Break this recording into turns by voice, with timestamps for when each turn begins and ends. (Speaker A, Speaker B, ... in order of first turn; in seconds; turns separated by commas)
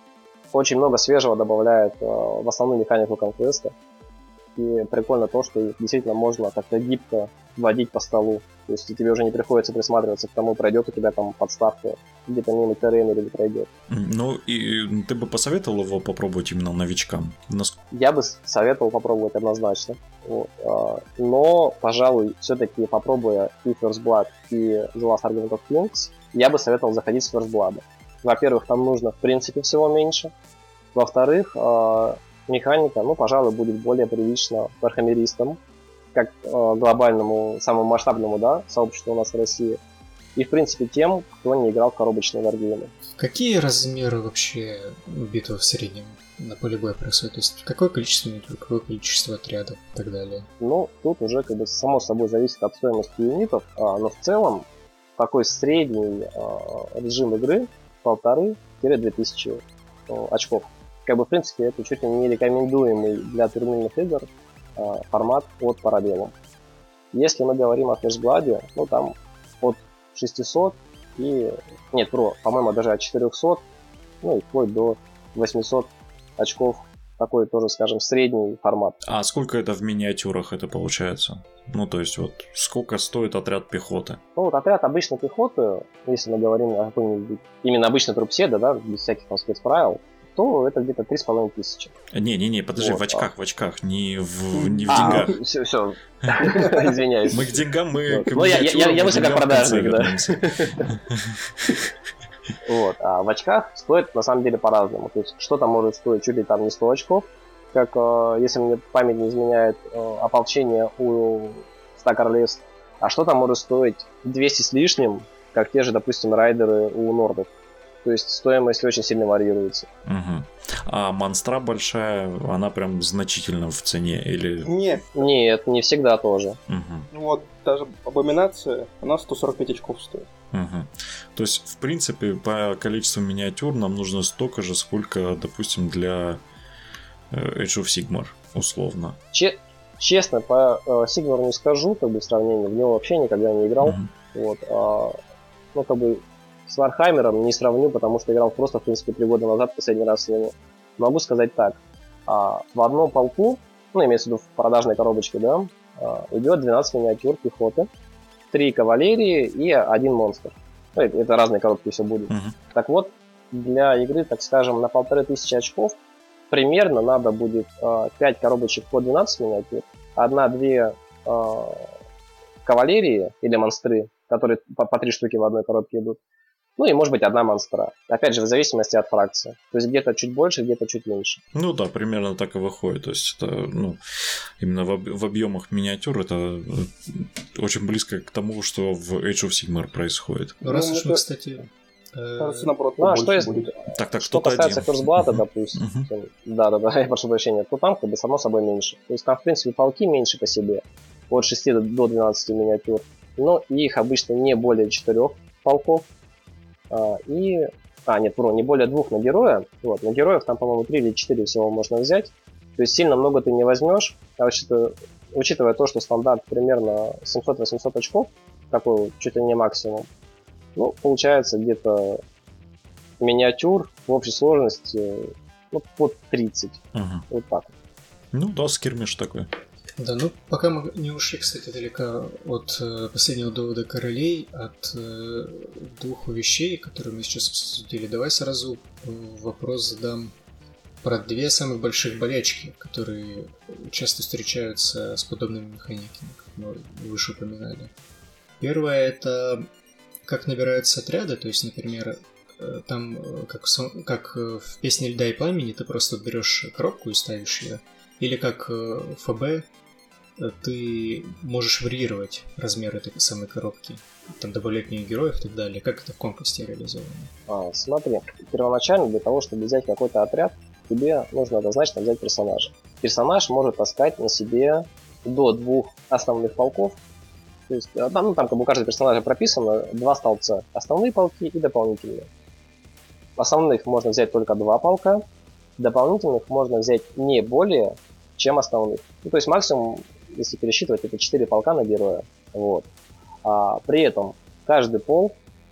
Speaker A: 0.5-3.7, Speaker A: 4.5-13.7, Speaker B: 13.9-17.8, Speaker A: 17.9-30.3, Speaker A: 30.9-35.6, Speaker A: 36.1-39.8, Speaker A: 40.4-42.9, Speaker C: 43.2-50.5, Speaker A: 50.6-54.6, Speaker A: 55.2-66.3, Speaker A: 67.1-73.6, Speaker A: 74.2-79.0, Speaker B: 79.0-84.2, Speaker A: 84.4-91.9, Speaker B: 92.1-95.4, Speaker A: 92.8-93.3, Speaker D: 94.5-95.4, Speaker A: 94.9-100.9, Speaker D: 96.5-97.0, Speaker B: 97.3-101.9, Speaker A: 102.6-117.5, Speaker A: 118.0-119.9, Speaker B: 120.0-124.7, Speaker D: 124.6-125.1, Speaker A: 125.1-126.6, Speaker B: 126.7-127.1, Speaker D: 127.1-130.3, Speaker B: 130.5-136.4, Speaker B: 137.3-139.2, Speaker A: 139.3-145.2, Speaker B: 143.8-144.1, Speaker A: 145.7-157.9, Speaker A: 158.5-166.0, Speaker B: 162.3-162.6, Speaker A: 166.5-171.9, Speaker A: 172.6-176.2, Speaker A: 176.8-181.4, Speaker B: 181.5-184.0, Speaker B: 184.6-190.6, Speaker D: 190.6-191.2, Speaker C: 190.6-192.7, Speaker D: 192.4-193.7, Speaker A: 193.0-206.1, Speaker B: 193.9-196.1, Speaker A: 206.9-220.1, Speaker A: 220.8-222.2, Speaker A: 223.2-227.7, Speaker B: 226.9-227.2, Speaker B: 228.3-229.5, Speaker C: 230.0-240.3, Speaker C: 241.0-247.9, Speaker C: 248.6-249.7, Speaker C: 250.3-259.6, Speaker C: 260.4-267.3, Speaker A: 267.5-277.0, Speaker A: 277.7-282.3, Speaker A: 283.4-285.2, Speaker A: 285.8-292.9, Speaker A: 293.4-295.4